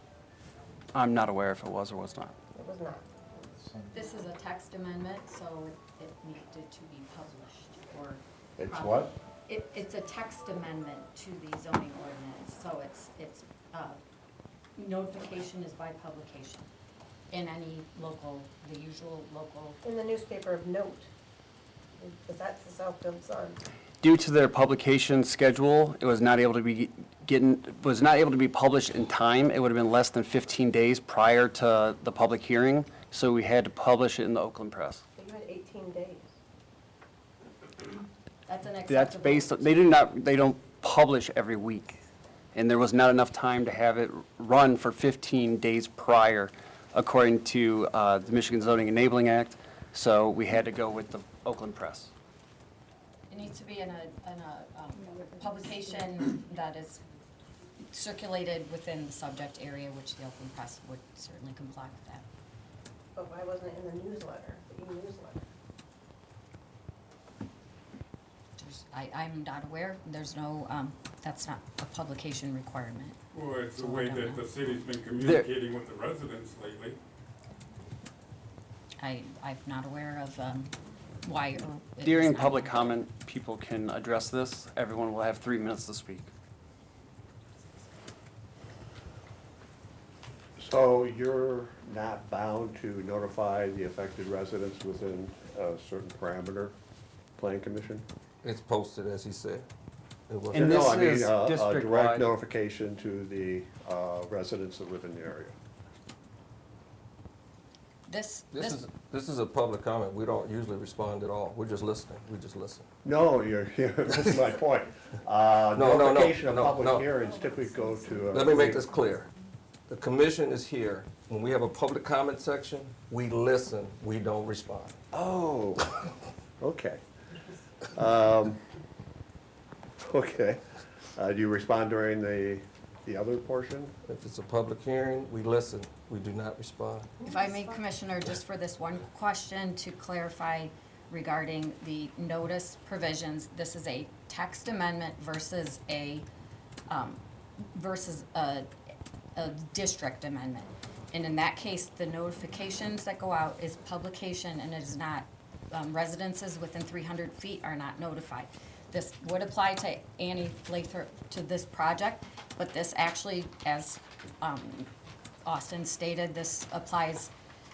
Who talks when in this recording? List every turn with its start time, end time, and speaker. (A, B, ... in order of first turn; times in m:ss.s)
0:00.9-0:02.4 A
0:02.5-0:03.8 B
0:03.9-0:14.0 C
0:08.6-0:09.2 D
0:14.8-0:16.7 C
0:17.3-0:19.8 C
0:19.8-0:21.1 B
0:22.0-0:23.6 B
0:24.0-0:35.0 A
0:35.2-0:36.3 B
0:38.5-0:39.8 C
0:38.9-0:42.0 A
0:42.5-0:52.1 A
0:53.3-0:57.0 C
0:57.9-1:02.2 C
1:03.2-1:05.5 B
1:08.6-1:13.2 C
1:13.3-1:17.0 E
1:13.8-1:14.4 C
1:15.2-1:15.5 A
1:19.0-1:23.0 C
1:22.0-1:26.3 A
1:30.6-1:36.8 D
1:37.4-1:38.1 D
1:38.4-1:39.7 F
1:40.3-1:40.9 F
1:40.5-1:42.3 A
1:40.5-1:45.6 D
1:48.1-1:48.8 C
1:48.5-1:52.9 F
1:53.0-1:58.9 D
1:55.7-1:57.1 F
1:58.3-1:59.3 F
1:59.9-2:05.0 F
2:05.1-2:06.0 D
2:06.6-2:07.0 D
2:07.9-2:08.6 D
2:10.0-2:10.6 D
2:11.2-2:13.9 D
2:14.1-2:17.1 F
2:17.2-2:26.3 C
2:26.9-2:28.7 C
2:29.4-2:44.9 C
2:45.4-2:47.3 C